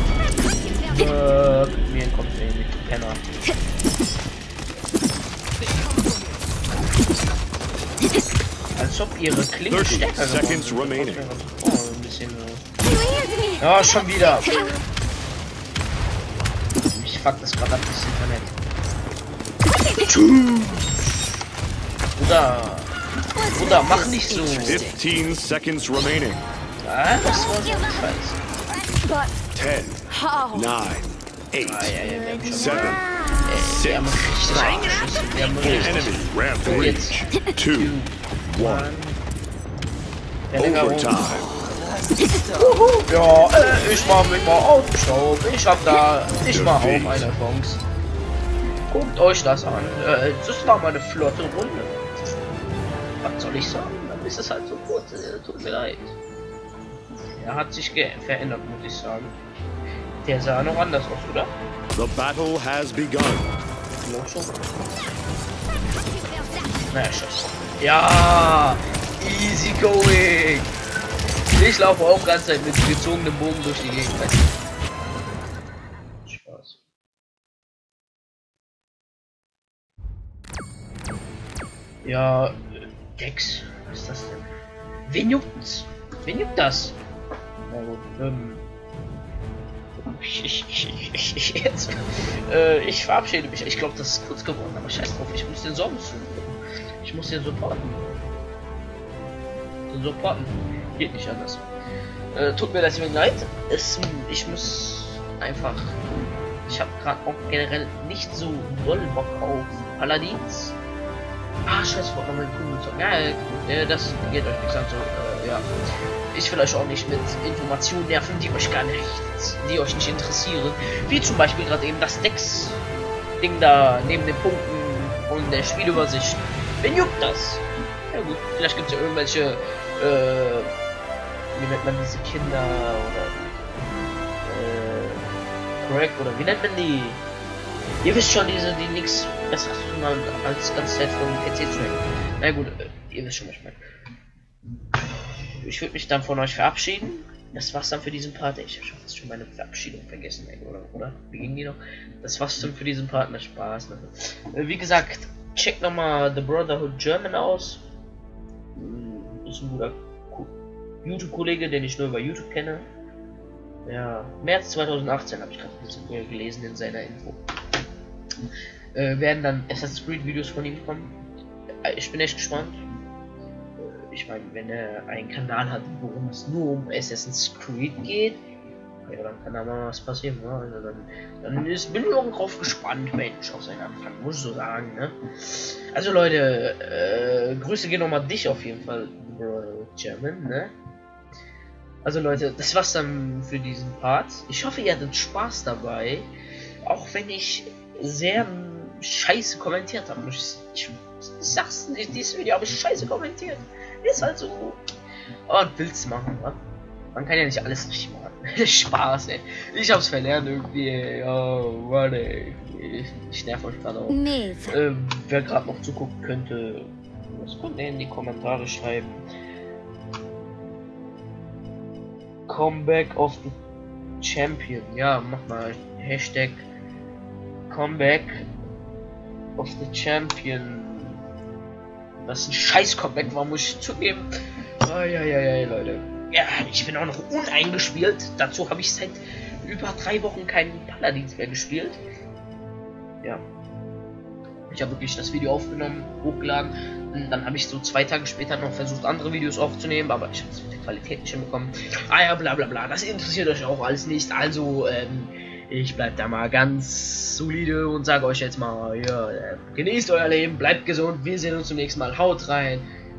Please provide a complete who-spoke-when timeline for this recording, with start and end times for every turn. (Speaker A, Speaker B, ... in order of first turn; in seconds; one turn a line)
Speaker A: 0.5-1.1
Speaker B: 0.9-3.2
Speaker B: 8.8-12.6
Speaker C: 9.7-11.3
Speaker A: 12.9-14.8
Speaker B: 13.6-14.5
Speaker B: 16.9-18.6
Speaker B: 20.0-21.1
Speaker B: 22.2-22.9
Speaker A: 23.3-24.9
Speaker B: 23.5-24.9
Speaker C: 24.5-26.5
Speaker B: 26.8-28.4
Speaker A: 27.2-28.1
Speaker A: 28.8-29.3
Speaker C: 29.6-31.9
Speaker A: 30.1-30.7
Speaker B: 31.6-39.2
Speaker A: 32.0-33.5
Speaker C: 32.5-35.0
Speaker C: 35.6-39.0
Speaker B: 40.5-41.3
Speaker C: 40.6-41.5
Speaker B: 42.6-47.8
Speaker C: 46.5-47.3
Speaker B: 48.9-52.0
Speaker B: 53.2-56.1
Speaker B: 57.4-59.4
Speaker B: 60.2-61.5
Speaker C: 62.0-63.5
Speaker B: 64.0-64.5
Speaker A: 66.2-66.6
Speaker B: 66.9-70.7
Speaker B: 71.5-74.5
Speaker B: 76.3-76.8
Speaker B: 82.0-82.6
Speaker B: 83.2-84.5
Speaker B: 85.1-87.0
Speaker B: 87.7-88.6
Speaker B: 90.0-92.0
Speaker B: 92.5-98.3
Speaker B: 99.9-101.7
Speaker B: 102.3-106.0
Speaker B: 106.7-110.8
Speaker B: 111.7-115.7
Speaker B: 116.3-122.8
Speaker B: 123.4-130.7
Speaker B: 131.5-133.8
Speaker B: 134.4-135.2
Speaker B: 135.8-137.2
Speaker B: 138.0-143.8
Speaker B: 145.6-157.8
Speaker B: 158.8-160.5
Speaker B: 161.0-162.8
Speaker B: 163.9-167.4
Speaker B: 168.9-171.2
Speaker B: 171.8-172.8
Speaker B: 173.8-178.4
Speaker B: 179.1-190.7
Speaker B: 192.1-196.3
Speaker B: 196.8-204.8
Speaker B: 205.5-206.6
Speaker B: 207.1-214.2
Speaker A: 214.1-214.8
Speaker B: 214.7-219.2
Speaker B: 222.5-223.6
Speaker B: 224.2-226.6
Speaker B: 227.7-228.5
Speaker B: 229.6-231.2
Speaker B: 232.2-234.3
Speaker B: 234.8-242.0
Speaker B: 244.7-262.8